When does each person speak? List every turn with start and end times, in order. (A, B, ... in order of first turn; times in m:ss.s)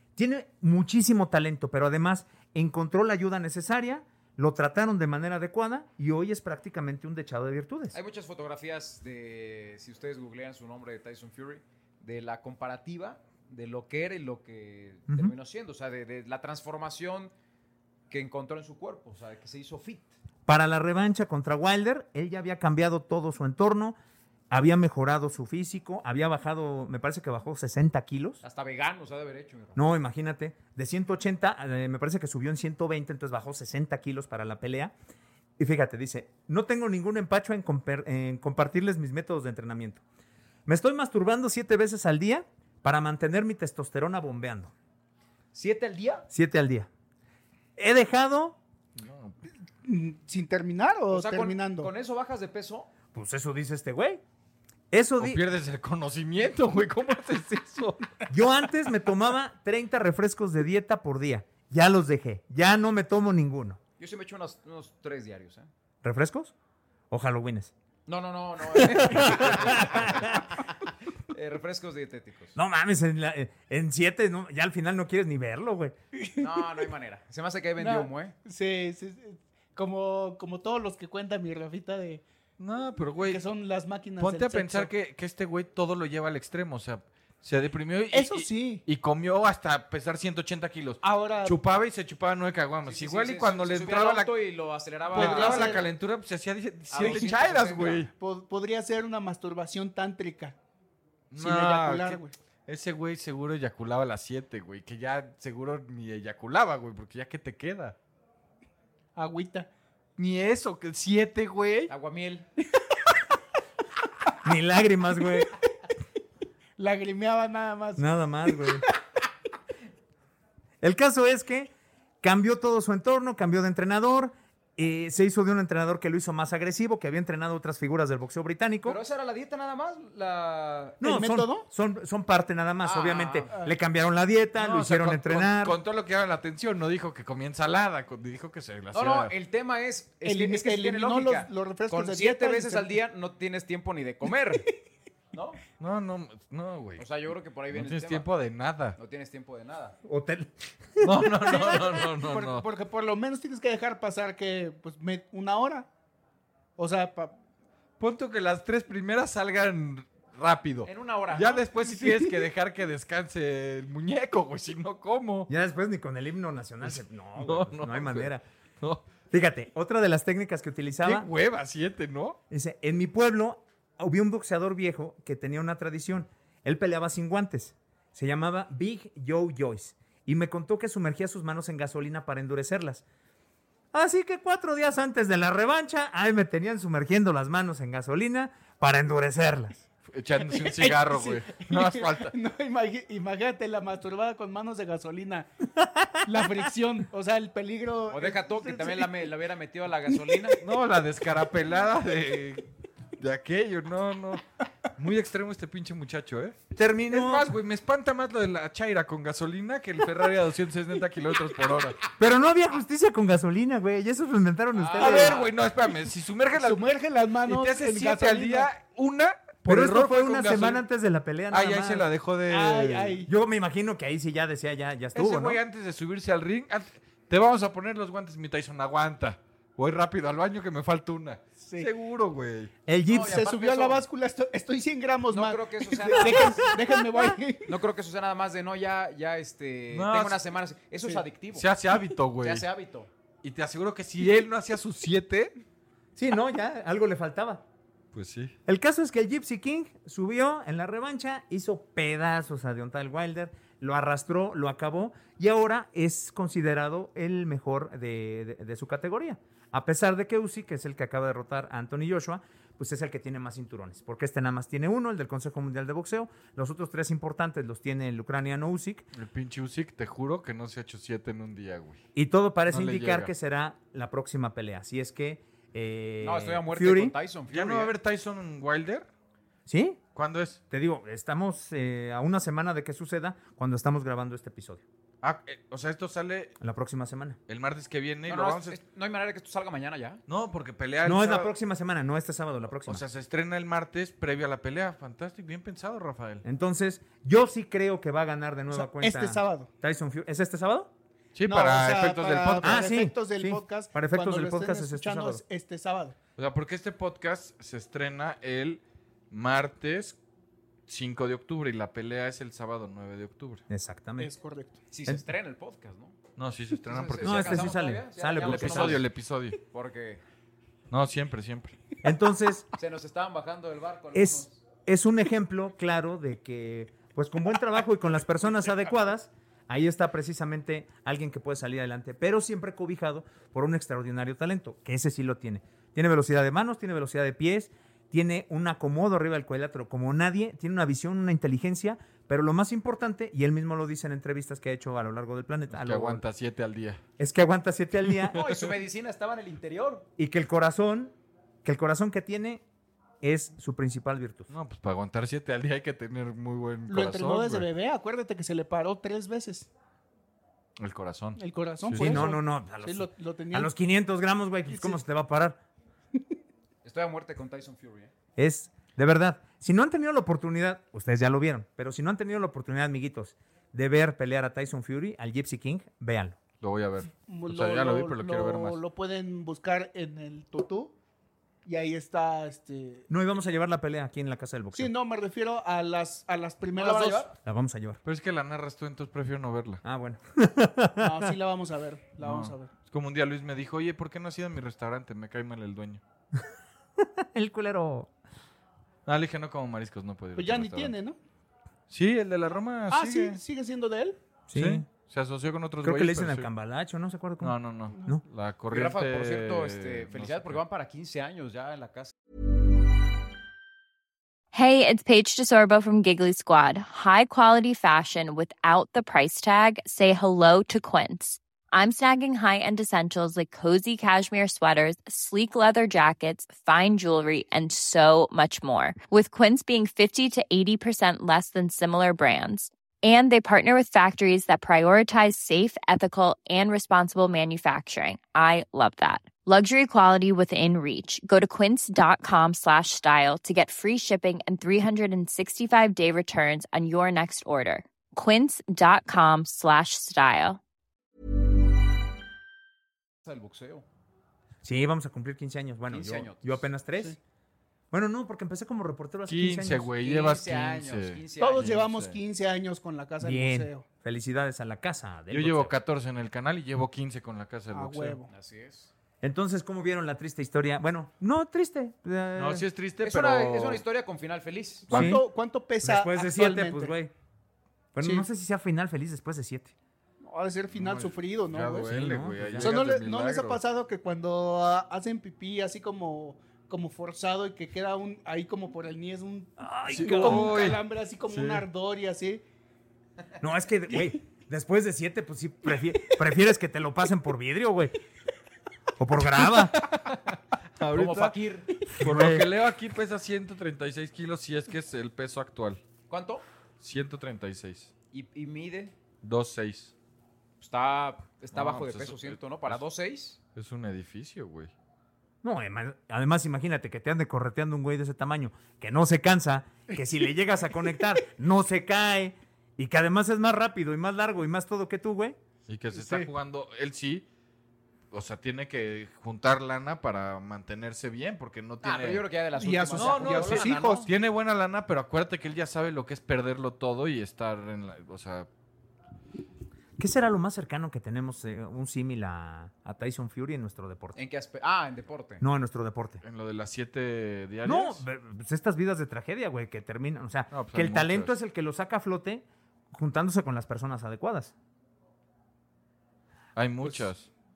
0:00.2-0:08.0 A
0:07.9-0:17.3 B
0:15.1-0:15.3 A
0:18.1-0:20.1 B
0:20.5-0:24.0 A
0:24.5-0:28.4 A
0:28.4-0:29.8 B
0:29.8-0:34.9 A
0:35.6-0:40.0 A
0:40.7-0:44.7 A
0:45.5-0:46.3 B
0:46.3-0:46.9 A
0:47.8-0:48.6 A
0:49.0-0:49.4 C
0:49.8-0:51.9 D
0:51.1-0:52.9 B
0:53.1-0:54.2 A
0:54.9-0:55.4 A
0:55.2-0:58.1 C
0:58.3-1:03.8 A
1:04.0-1:05.7 B
1:06.0-1:06.5 A
1:07.1-1:07.7 A
1:08.1-1:10.7 B
1:08.7-1:10.4 A
1:11.3-1:12.6 B
1:12.6-1:16.0 A
1:16.2-1:16.6 D
1:16.4-1:18.4 B
1:17.8-1:22.2 D
1:22.6-1:23.4 C
1:23.2-1:24.9 D
1:24.2-1:34.3 C
1:28.1-1:28.8 D
1:31.0-1:31.6 D
1:32.8-1:35.8 B
1:35.1-1:38.1 C
1:35.1-1:35.9 D
1:36.9-1:38.1 B
1:37.0-1:37.3 D
1:38.2-1:40.6 D
1:41.3-1:48.0 C
1:41.4-1:42.3 D
1:49.2-1:49.7 D
1:50.2-1:51.9 C
1:51.9-1:52.5 B
1:54.4-1:55.5 A
1:56.8-1:58.8 D
1:58.0-1:58.9 A
2:00.8-2:09.0 A
2:08.8-2:11.0 B
2:11.0-2:15.8 A
2:11.0-2:11.6 D
2:12.8-2:13.5 B
2:14.6-2:19.3 C
2:18.9-2:24.7 B
2:20.2-2:23.0 D
2:25.3-2:25.6 B
2:25.8-2:27.1 C
2:27.0-2:28.3 B
2:27.7-2:29.0 C
2:29.0-2:30.0 B
2:30.0-2:31.1 A
2:31.0-2:32.7 C
2:31.5-2:35.9 D
2:36.8-2:37.4 D
2:38.0-2:45.5 C
2:40.8-2:41.7 B
2:41.8-2:42.4 D
2:45.5-2:48.4 A
2:46.8-2:49.1 C
2:49.3-2:51.3 A
2:51.0-2:52.4 C
2:52.5-3:03.0 A
3:03.9-3:09.8 A
3:10.1-3:12.4 C
3:10.5-3:15.5 D
3:15.8-3:16.5 A
3:16.2-3:19.3 D
3:18.1-3:20.6 B
3:20.1-3:20.5 D
3:20.6-3:24.4 C
3:25.0-3:26.6 C
3:26.7-3:27.5 A
3:27.1-3:32.0 C
3:32.2-3:35.4 A
3:34.8-3:36.9 C
3:35.0-3:35.4 D
3:36.5-3:38.7 D
3:37.4-3:40.8 C
3:39.6-3:42.1 A
3:41.5-3:43.2 C
3:42.5-3:43.3 D
3:43.2-3:45.6 A
3:45.2-3:52.7 C
3:51.6-3:51.9 D
3:52.9-3:53.4 A
3:53.1-3:54.0 B
3:53.1-3:57.7 D
3:55.3-3:56.6 B
3:57.7-4:01.7 B
3:59.9-4:00.4 C
4:01.5-4:02.7 C
4:02.4-4:03.1 B
4:03.4-4:05.5 C
4:06.2-4:07.6 A
4:08.1-4:08.6 C
4:08.7-4:29.1 A
4:29.1-4:32.0 C
4:32.2-4:37.2 A
4:32.7-4:33.3 C
4:36.2-4:37.9 B
4:37.5-4:39.1 C
4:39.7-4:40.0 A
4:40.2-4:40.6 C
4:40.7-4:44.8 A
4:45.2-4:46.6 C
4:46.6-4:47.4 A
4:47.5-4:48.8 C
4:48.3-4:50.2 B
4:50.3-4:51.5 C
4:51.0-4:53.0 A
4:52.9-4:56.4 C
4:56.4-5:00.9 A
4:58.7-4:59.7 D
5:01.4-5:02.9 C
5:01.5-5:06.2 D
5:02.6-5:05.4 A
5:06.4-5:10.2 C
5:10.9-5:13.6 C
5:13.7-5:14.3 A
5:14.2-5:14.8 D
5:14.9-5:16.2 B
5:16.4-5:17.8 C
5:16.9-5:19.1 B
5:17.2-5:19.1 A
5:18.4-5:19.6 C
5:19.7-5:20.2 B
5:20.9-5:21.7 C
5:22.0-5:22.7 A
5:22.8-5:24.6 B
5:24.1-5:46.2 A
5:45.7-5:47.0 C
5:47.2-5:48.4 A
5:48.1-5:48.7 C
5:48.3-5:50.1 B
5:50.2-5:52.6 A
5:53.2-5:54.5 A
5:54.5-5:57.7 C
5:56.9-5:59.7 D
6:00.8-6:02.2 C
6:01.4-6:03.7 D
6:02.0-6:05.6 A
6:04.7-6:05.0 D
6:06.8-6:08.1 B
6:08.4-6:16.4 A
6:16.6-6:18.8 C
6:17.2-6:20.9 D
6:21.6-6:23.1 D
6:23.1-6:24.9 A
6:24.7-6:27.3 D
6:26.8-6:27.3 B
6:27.4-6:28.0 A
6:28.0-6:29.8 C
6:29.8-6:31.4 A
6:31.0-6:32.7 D
6:32.2-6:36.0 C
6:37.0-6:38.1 A
6:39.1-6:40.9 C
6:40.4-6:41.2 D
6:41.9-6:43.4 C
6:42.9-6:44.2 D
6:44.5-6:44.9 A
6:44.5-6:46.5 C
6:45.8-6:48.2 A
6:47.4-6:50.6 C
6:48.7-6:52.1 B
6:54.5-7:30.6 E
7:33.2-7:33.8 B
7:34.6-7:37.2 A
7:35.9-7:36.7 B
7:37.9-7:39.9 A
7:39.3-7:42.2 C
7:40.0-7:41.8 B
7:41.4-7:43.8 D
7:43.2-7:45.8 A
7:45.3-7:48.2 C
7:47.7-7:48.3 D
7:48.3-7:48.9 B
7:49.2-7:52.7 A
7:52.4-7:53.8 C
7:53.0-7:54.9 B
7:54.9-7:57.0 D
7:54.9-7:55.2 A
7:55.8-7:57.1 A
7:58.0-7:59.8 A
7:58.0-7:58.3 D
8:00.2-8:12.4 D
8:00.7-8:03.6 C
8:01.9-8:02.7 A
8:09.6-8:10.7 A
8:09.9-8:11.6 C
8:13.4-8:18.0 A
8:19.0-8:19.8 A
8:19.7-8:21.4 C
8:20.9-8:21.7 B
8:21.9-8:25.8 C
8:22.0-8:22.5 A
8:26.1-8:26.4 B
8:26.8-8:27.9 C
8:28.1-8:28.9 B
8:29.2-8:29.9 C
8:30.6-8:33.4 B
8:31.5-8:32.8 C
8:33.6-8:34.7 C
8:35.4-8:45.4 A
8:45.7-8:47.2 C
8:45.9-8:46.3 D
8:48.1-8:52.3 C
8:51.8-8:54.1 B
8:52.6-8:54.1 D
8:52.9-8:58.5 C
9:00.0-9:04.2 A
9:04.2-9:05.4 B
9:05.4-9:06.2 A
9:06.2-9:08.0 C
9:07.6-9:14.5 A
9:10.5-9:11.3 C
9:16.6-9:17.3 C
9:16.8-9:17.1 A